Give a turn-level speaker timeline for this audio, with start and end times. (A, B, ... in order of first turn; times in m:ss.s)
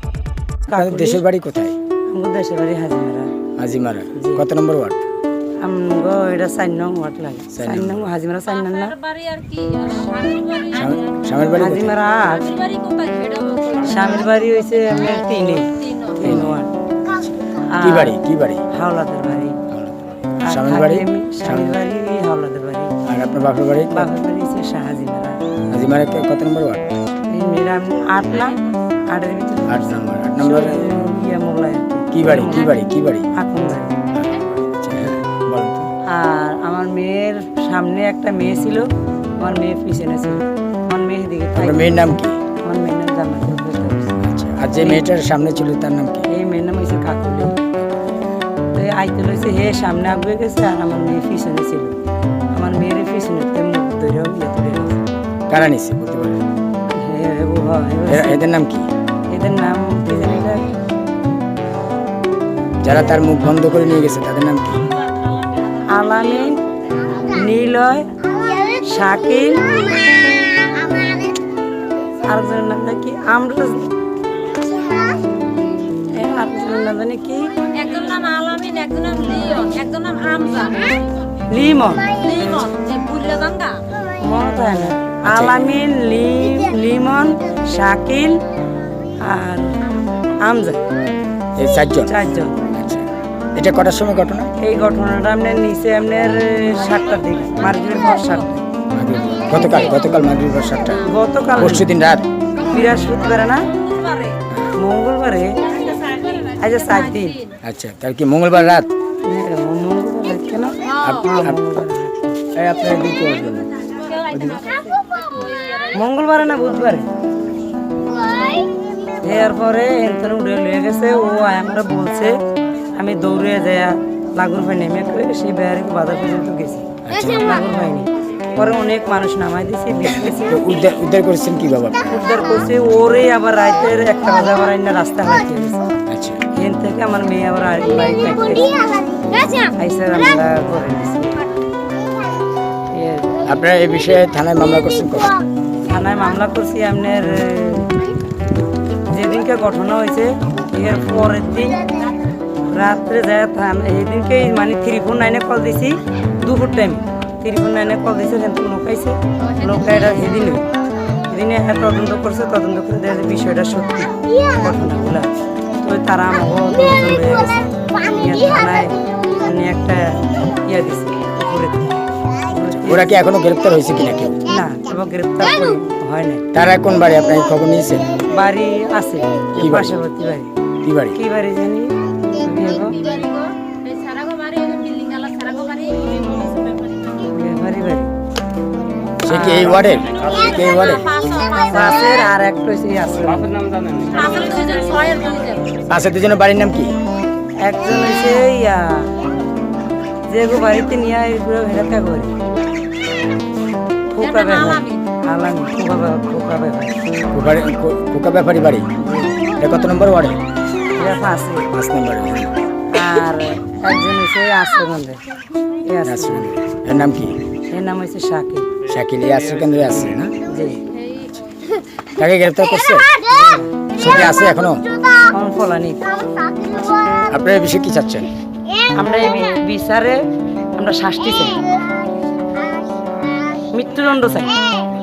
0:00.7-0:01.2 A
0:00.8-0:01.8 B
0:02.1-0:03.3 A
0:03.6-0:05.0 B
0:04.2-0:04.4 A
0:05.6-0:09.0 A
0:07.5-0:08.1 B
0:08.5-0:11.2 C
0:10.8-0:12.0 B
0:11.6-0:12.4 A
0:12.2-0:14.2 C
0:13.9-0:16.7 A
0:15.6-0:16.2 C
0:16.2-0:16.5 B
0:17.1-0:18.6 B
0:17.7-0:18.1 A
0:18.8-0:19.6 A
0:19.7-0:21.8 B
0:20.5-0:22.9 A
0:23.1-0:24.1 B
0:23.9-0:25.4 A
0:25.7-0:27.0 B
0:27.3-0:28.6 A
0:29.1-0:29.9 A
0:29.7-0:30.8 B
0:30.4-0:32.7 A
0:32.1-0:33.3 B
0:33.4-0:34.0 A
0:34.1-0:35.9 B
0:36.1-0:38.9 A
0:39.4-0:42.0 A
0:41.6-0:42.4 B
0:42.6-0:44.2 A
0:44.2-0:46.2 B
0:44.8-0:45.1 A
0:46.3-0:47.6 A
0:48.7-0:52.0 A
0:52.5-0:55.0 A
0:55.5-0:56.4 B
0:56.9-0:58.4 A
0:58.1-0:58.9 B
0:59.3-1:00.7 A
1:02.8-1:04.8 B
1:05.9-1:06.6 A
1:07.3-1:08.1 A
1:08.8-1:09.8 A
1:12.3-1:13.9 A
1:16.1-1:17.5 A
1:17.8-1:20.8 C
1:21.5-1:22.1 A
1:22.2-1:23.8 C
1:24.2-1:28.4 A
1:25.3-1:25.6 B
1:29.2-1:29.7 A
1:30.4-1:30.8 A
1:31.6-1:32.1 B
1:32.1-1:32.6 A
1:32.7-1:34.5 B
1:34.6-1:38.6 A
1:38.9-1:41.0 B
1:39.5-1:39.9 A
1:41.1-1:41.9 A
1:41.6-1:42.2 B
1:42.6-1:43.6 A
1:43.8-1:44.3 C
1:44.8-1:45.6 A
1:45.7-1:47.3 C
1:46.6-1:47.4 A
1:47.6-1:48.9 B
1:49.2-1:52.4 A
1:50.8-1:51.2 C
1:51.0-1:51.6 B
1:52.6-1:53.7 B
1:54.0-1:56.0 C
1:54.3-1:54.6 B
1:56.0-1:57.1 A
1:59.2-2:02.4 A
2:03.0-2:10.7 A
2:07.0-2:07.5 B
2:10.1-2:12.2 B
2:12.1-2:15.8 A
2:16.1-2:16.4 B
2:16.5-2:18.8 A
2:19.4-2:21.4 A
2:22.9-2:23.4 A
2:23.4-2:25.4 B
2:25.8-2:27.8 A
2:29.1-2:31.8 A
2:32.7-2:40.6 A
2:41.3-2:51.9 A
2:52.5-2:53.1 A
2:52.8-2:54.4 B
2:54.5-2:56.4 A
2:56.5-2:58.1 B
2:58.3-3:00.5 A
2:59.6-3:00.0 B
3:00.8-3:01.2 B
3:01.1-3:03.0 A
3:02.8-3:06.8 C
3:07.3-3:08.1 A
3:09.2-3:11.0 B
3:09.3-3:09.9 A
3:10.1-3:12.1 C
3:11.7-3:13.5 A
3:14.1-3:15.6 C
3:15.9-3:16.9 B
3:17.6-3:19.1 A
3:20.3-3:22.4 A
3:24.1-3:27.0 A
3:24.2-3:25.0 C
3:27.3-3:28.9 B
3:29.0-3:29.4 A
3:29.6-3:30.4 B
3:31.0-3:31.7 A
3:31.7-3:32.5 B
3:32.9-3:35.2 A
3:35.9-3:36.5 A
3:36.0-3:37.4 B
3:37.7-3:38.7 A
3:38.9-3:40.3 B
3:40.5-3:40.8 A
3:40.9-3:41.3 C
3:42.2-3:43.2 B
3:43.2-3:44.3 A
3:44.0-3:44.8 B
3:45.3-3:46.1 A
3:47.3-3:48.3 B
3:49.0-3:50.2 A
3:50.7-3:51.6 A
3:53.7-3:54.6 A